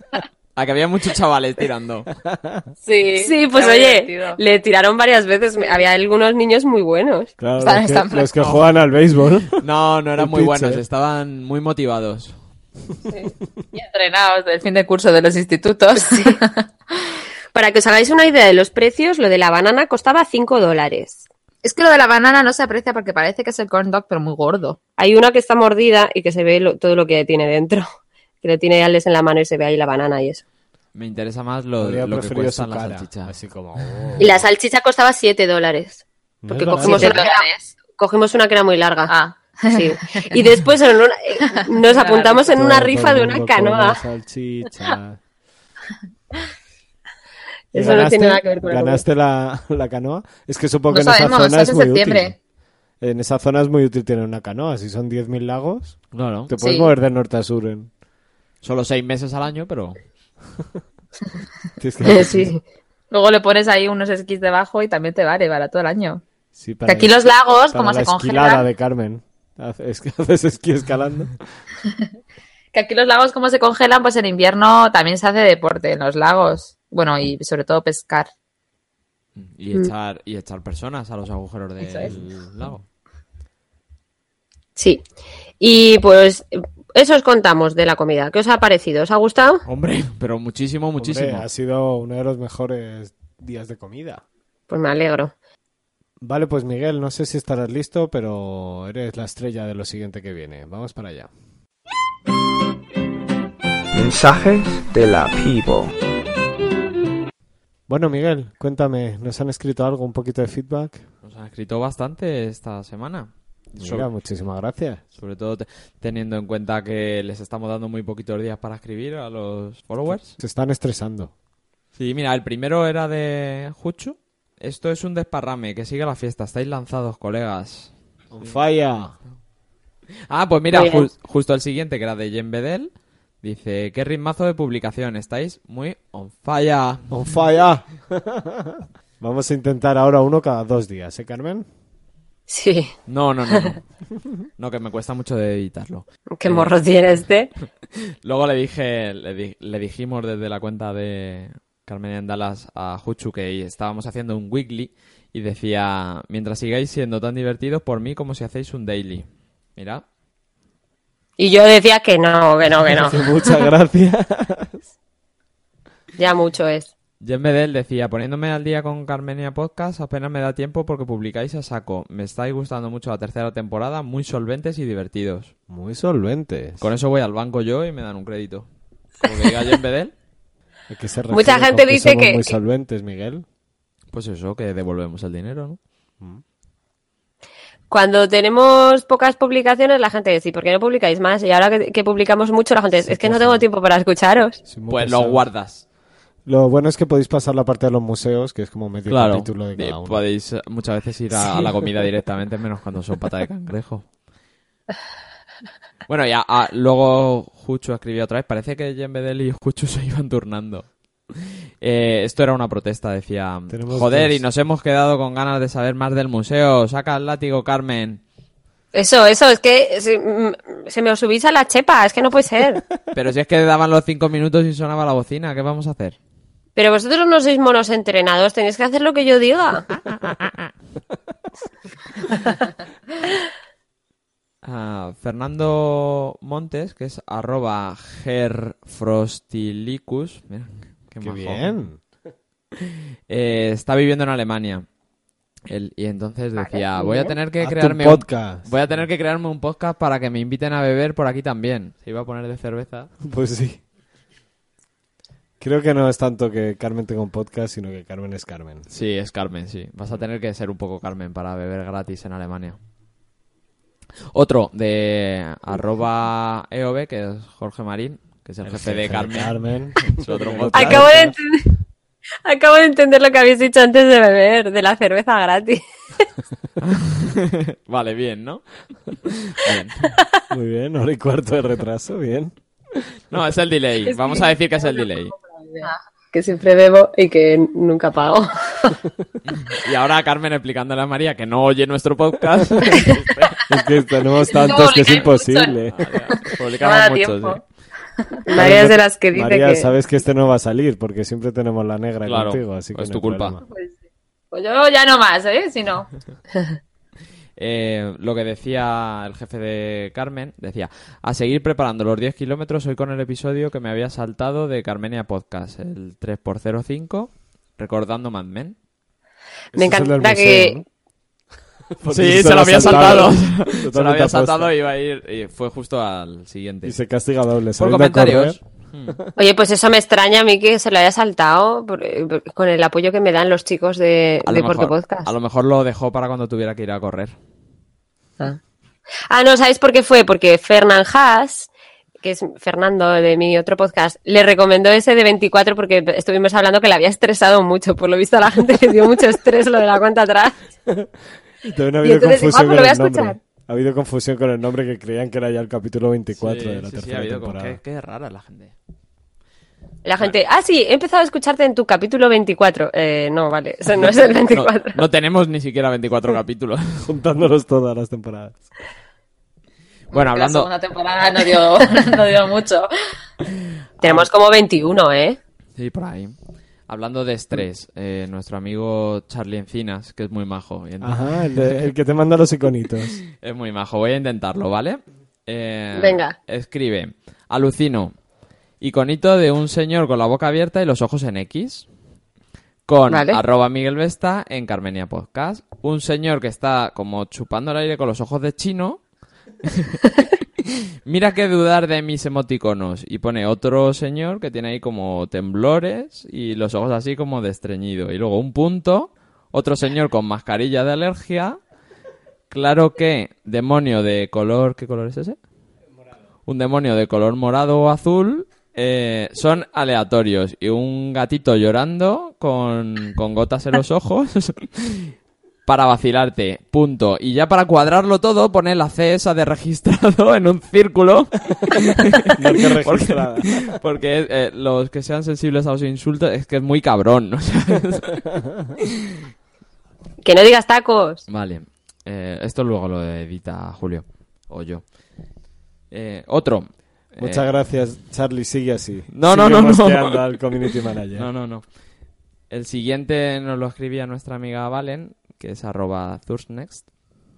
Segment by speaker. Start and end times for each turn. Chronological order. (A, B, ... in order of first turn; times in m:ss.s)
0:00.6-0:02.1 A
0:02.2-0:02.6 B
0:02.8-0:04.4 C
0:03.2-0:07.3 D
0:07.4-0:09.6 B
0:07.6-0:08.3 C
0:08.4-0:08.6 A
0:09.6-0:12.4 A
0:10.2-0:10.8 B
0:13.7-0:16.7 C
0:16.0-0:16.4 D
0:17.5-0:21.2 D
0:21.6-0:24.8 C
0:25.0-0:27.9 D
0:28.4-0:30.4 D
0:30.9-0:33.3 A
0:31.8-0:34.4 B
0:34.2-0:39.1 D
0:36.4-0:37.2 B
0:36.8-0:37.7 C
0:39.1-0:40.4 C
0:39.7-0:44.0 D
0:41.8-0:42.5 C
0:42.5-0:45.2 B
0:47.7-0:49.0 D
0:47.7-0:52.4 B
0:50.9-0:52.3 C
0:53.0-0:57.9 B
0:56.1-0:56.5 A
0:56.6-0:56.9 C
0:58.6-1:00.0 A
1:01.8-1:02.5 B
1:02.0-1:02.6 D
1:03.1-1:06.2 C
1:06.5-1:11.4 B
1:06.8-1:08.7 C
1:12.7-1:18.3 C
1:19.4-1:22.8 A
1:21.8-1:22.1 C
1:24.8-1:25.0 D
1:25.6-1:29.6 D
1:29.7-1:31.4 A
1:31.0-1:34.2 B
1:34.7-1:35.3 D
1:36.2-1:41.3 B
1:43.9-1:45.9 E
1:47.9-1:51.0 B
1:51.2-1:54.1 A
1:53.8-1:55.0 B
1:55.2-2:00.4 A
2:00.1-2:01.3 B
2:02.0-2:07.9 A
2:08.3-2:09.1 B
2:10.3-2:12.9 A
2:10.7-2:11.1 D
2:13.4-2:17.0 A
2:17.1-2:21.6 B
2:22.5-2:22.9 D
2:23.1-2:23.8 A
2:23.5-2:23.8 D
2:24.6-2:26.7 A
2:26.4-2:27.5 D
2:28.0-2:40.0 A
2:41.4-2:43.3 D
2:42.9-2:44.8 B
2:46.2-2:46.9 D
2:47.2-2:55.5 A
2:55.7-2:56.8 B
2:56.8-2:58.6 A
2:59.2-3:00.1 A
3:00.9-3:03.4 B
3:01.3-3:02.5 D
3:04.1-3:05.8 A
3:07.9-3:14.6 D
3:13.0-3:13.6 B
3:14.6-3:15.4 B
3:14.9-3:15.8 A
3:16.4-3:20.2 B
3:19.1-3:24.0 A
3:26.1-3:38.2 A
3:33.7-3:34.4 B
3:38.9-3:42.8 D
3:43.1-3:46.2 A
3:46.8-3:49.8 D
3:54.6-4:01.7 A
4:01.2-4:02.0 B
4:02.8-4:04.8 A
4:05.7-4:13.1 A
4:06.6-4:07.3 D
4:07.6-4:09.0 B
4:13.2-4:13.8 B
4:15.6-4:18.8 B
4:18.9-4:22.8 A
4:24.3-4:31.1 A
4:28.6-4:31.3 B
4:30.7-4:31.8 D
4:32.4-4:35.8 D
4:36.8-4:40.1 A
4:40.5-4:43.0 B
4:43.3-4:45.3 A
4:44.0-4:49.0 D
4:49.5-4:53.6 A
4:53.7-4:56.1 B
4:54.5-4:55.7 C
4:55.9-4:57.6 A
4:56.8-4:57.6 D
4:58.5-4:59.9 D
4:58.5-5:03.6 B
5:02.2-5:03.6 A
5:04.5-5:06.1 C
5:07.6-5:18.7 A
5:19.7-5:20.8 B
5:19.7-5:20.8 D
5:22.0-5:24.7 B
5:22.1-5:26.9 A
5:22.8-5:23.3 D
5:26.8-5:29.3 B
5:27.8-5:29.2 A
5:29.4-5:35.3 D
5:34.4-5:37.3 A
5:39.3-5:41.7 D
5:42.2-5:50.6 D
5:51.6-5:57.8 B
5:52.0-5:53.3 D
5:56.3-5:58.7 A
6:00.0-6:05.0 D
6:04.0-6:07.1 A
6:07.0-6:08.6 B
6:10.1-6:10.7 A
6:10.1-6:12.9 C
6:14.0-6:14.3 A
6:14.0-6:15.4 D
6:15.8-6:16.3 A
6:16.9-6:21.8 A
6:21.0-6:23.2 B
6:23.4-6:28.1 A
6:25.9-6:26.3 D
6:28.8-6:31.8 A
6:32.9-6:39.0 A
6:33.1-6:33.4 D
6:39.6-6:40.0 A
6:41.0-6:51.6 A
6:52.5-6:55.4 A
6:56.4-7:05.1 A
7:05.6-7:18.2 A
7:12.3-7:13.6 B
7:20.2-7:21.2 D
7:21.3-7:24.8 A
7:25.9-7:27.4 A
7:27.2-7:31.3 B
7:29.1-7:30.3 A
7:31.2-7:31.6 A
7:32.5-7:36.8 A